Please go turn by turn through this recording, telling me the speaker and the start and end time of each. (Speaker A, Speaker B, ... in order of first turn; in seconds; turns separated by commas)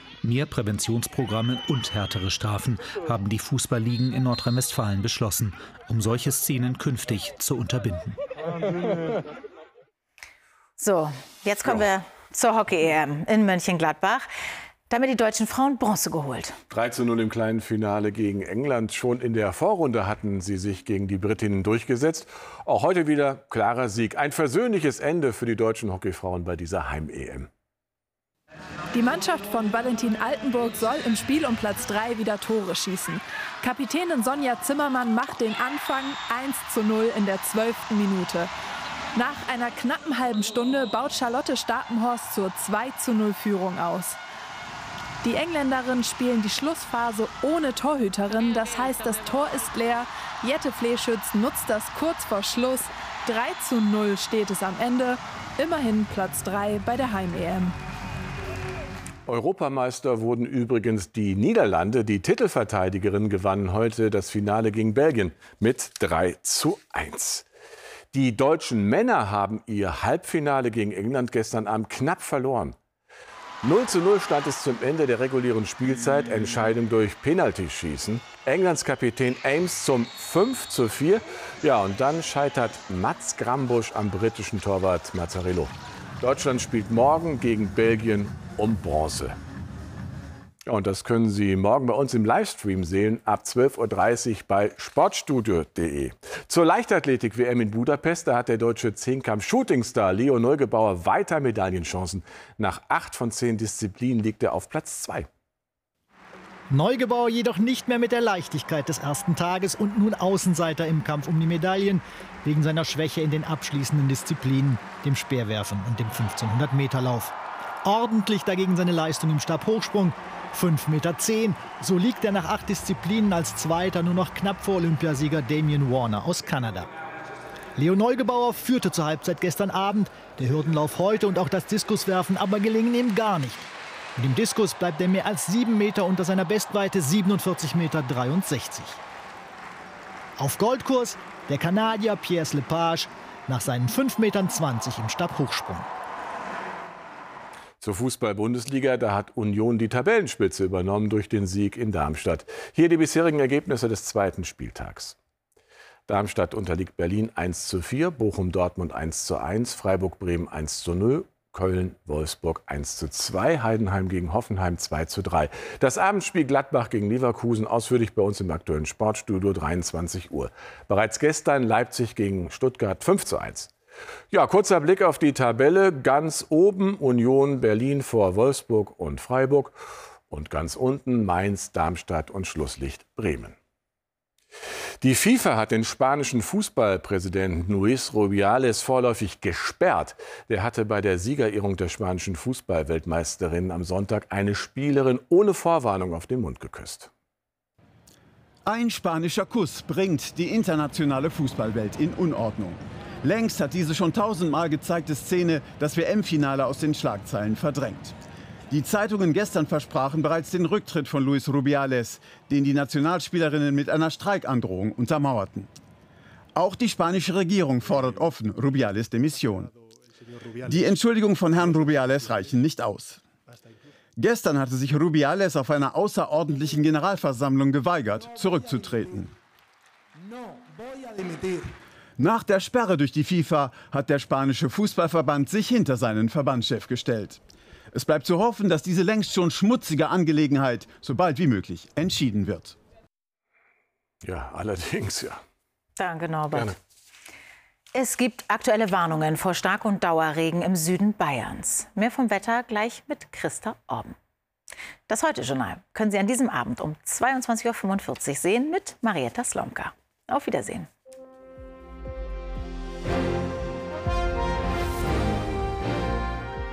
Speaker A: 0.2-8.2, Speaker B: 10.8-14.3, Speaker B: 14.9-16.6, Speaker C: 16.7-27.5, Speaker D: 28.9-38.5, Speaker D: 39.1-44.2, Speaker D: 45.2-57.8, Speaker C: 59.3-67.5, Speaker C: 68.1-72.8, Speaker C: 73.6-89.4, Speaker C: 90.7-105.3, Speaker E: 106.7-126.9, Speaker E: 127.8-139.0, Speaker E: 140.4-145.9, Speaker C: 147.8-155.1, Speaker C: 156.1-173.7, Speaker C: 174.3-179.8, Speaker C: 180.3-183.6, Speaker C: 185.0-197.1, Speaker F: 198.7-208.2, Speaker F: 208.7-215.7, Speaker F: 216.6-219.7, Speaker F: 220.6-223.2, Speaker F: 224.2-229.3, Speaker F: 232.2-237.4, Speaker F: 237.9-242.8, Speaker C: 244.2-245.4, Speaker B: 246.0-246.8, Speaker B: 247.9-254.2, Speaker B: 255.1-260.9